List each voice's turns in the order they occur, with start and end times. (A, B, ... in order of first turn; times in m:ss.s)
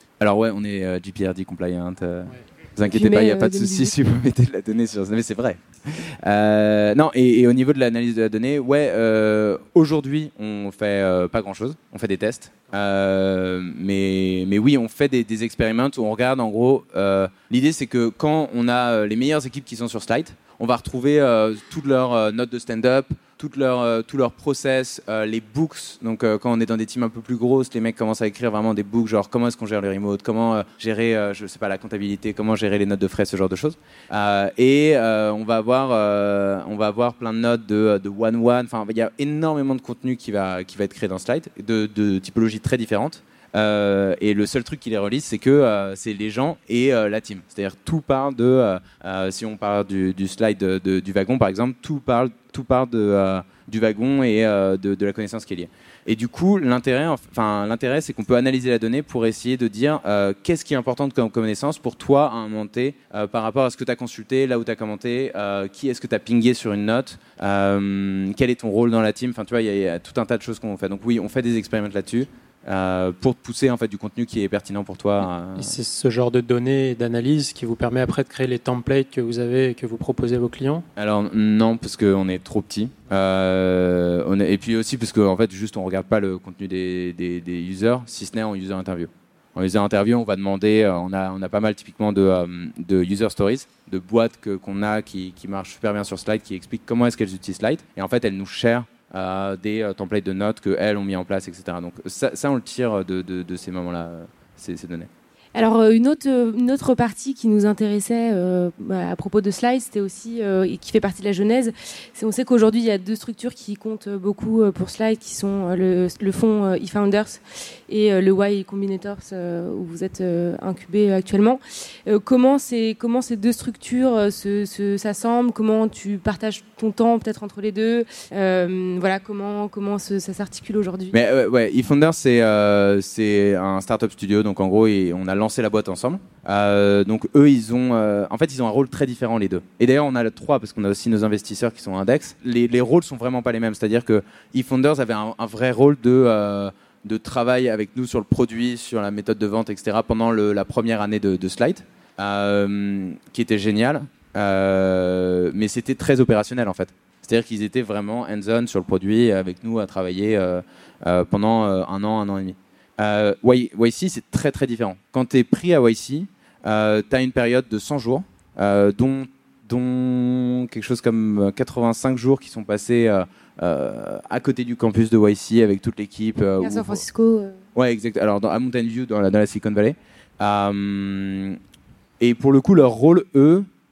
0:00.2-1:15.8 A
0:02.9-0:03.9 B
1:15.6-1:20.9 C
1:21.0-1:45.1 A
1:45.6-2:11.2 B
2:11.1-2:57.0 A
2:56.6-2:57.6 B
2:57.8-3:01.6 A
3:02.2-3:03.7 A